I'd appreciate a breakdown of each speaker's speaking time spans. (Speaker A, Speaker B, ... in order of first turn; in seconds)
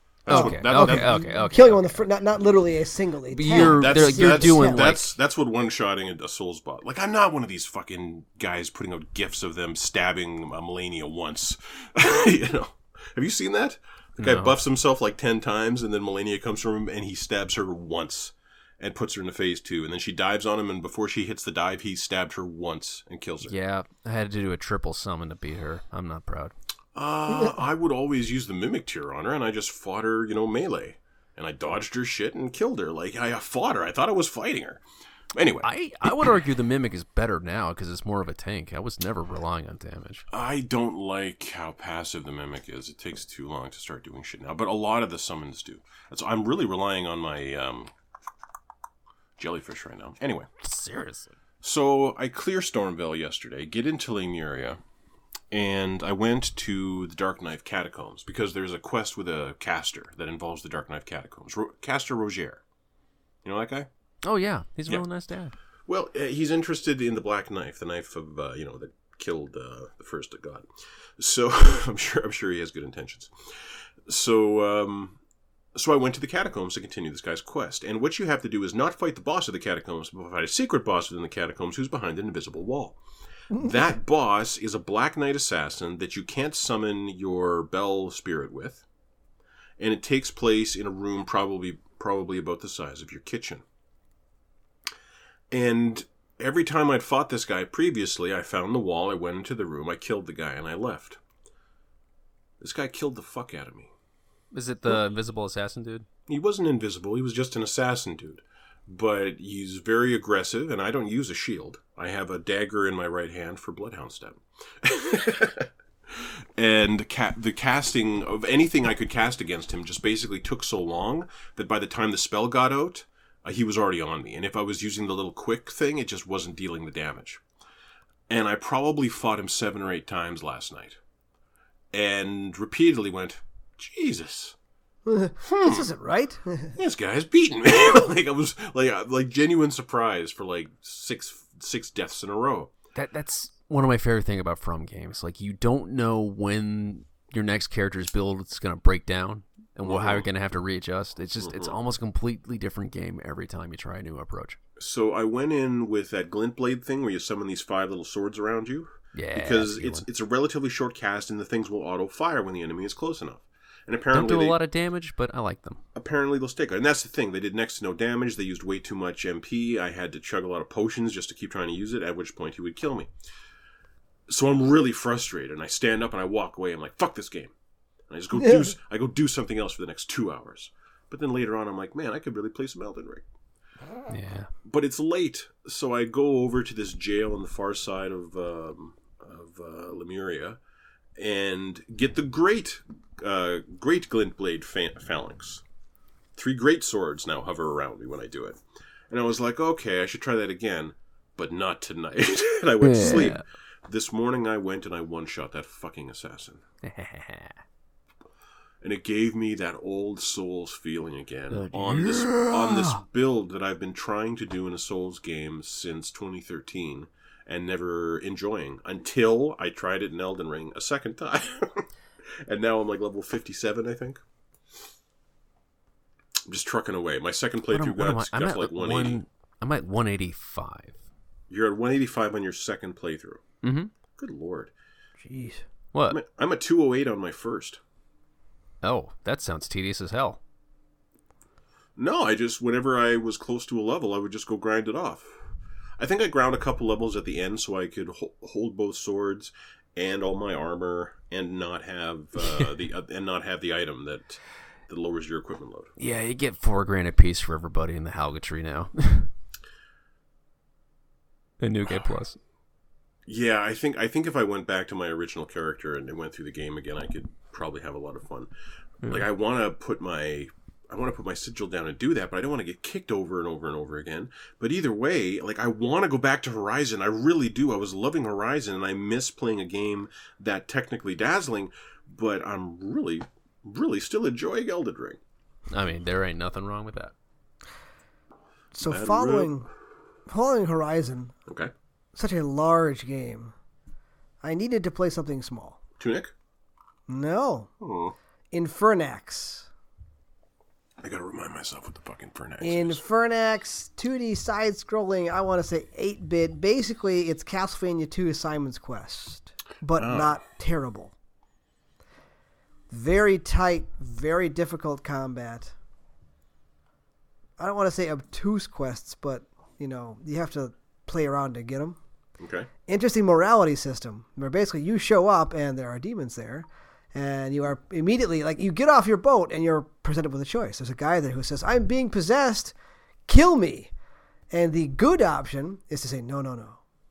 Speaker A: 0.2-1.2, 3.5-23.5, 26.9-34.8, 35.3-36.3, 40.3-47.9, 49.4-50.5, 51.6-54.8, 55.5-62.6, 63.4-63.9, 65.9-70.7, 71.2-75.2, 75.7-83.0, 83.5-88.8, 89.8-93.6, 95.5-101.2, 102.6-103.9, 106.3-127.4, 128.3-131.0, 131.9-134.6, 135.4-135.9, 136.7-142.7, 149.8-150.3, 151.4-151.8, 154.8-164.6, 165.9-173.1, 174.3-177.5, 178.1-183.2, 184.6-190.6, 191.2-195.6, 196.3-206.6, 208.8-224.2, 226.5-229.2, 231.5-233.4, 234.2-234.7, 236.1-237.8, 242.0-245.3, 246.0-255.9, 263.2-268.5, 269.1-285.2, 288.9-289.5, 291.5-291.7, 296.0-296.3, 297.8-298.1, 301.0-303.0, 310.0-310.4, 322.4-322.7
Speaker B: 0.3-2.1, 3.3-5.1, 14.2-14.6, 23.4-26.5, 35.6-40.2, 50.6-51.4, 64.2-65.5, 104.5-106.0, 142.9-154.6, 159.1-160.1, 164.1-165.8, 184.1-184.5, 202.8-203.4, 206.8-207.6, 211.5-213.0, 227.7-231.0, 233.6-233.9, 235.9-236.2, 238.8-240.4, 256.0-259.3, 261.6-262.4, 285.7-287.1
Speaker C: 0.3-4.9, 27.3-27.6, 83.5-83.8, 135.1-136.7, 178.3-178.7, 235.2-235.6, 288.7-289.7, 290.3-291.3, 292.1-293.5, 294.4-295.8, 297.1-297.7, 298.5-299.7, 302.6-311.1, 312.9-315.7, 317.6-322.0, 322.9-332.7, 333.3-333.9, 334.5-336.8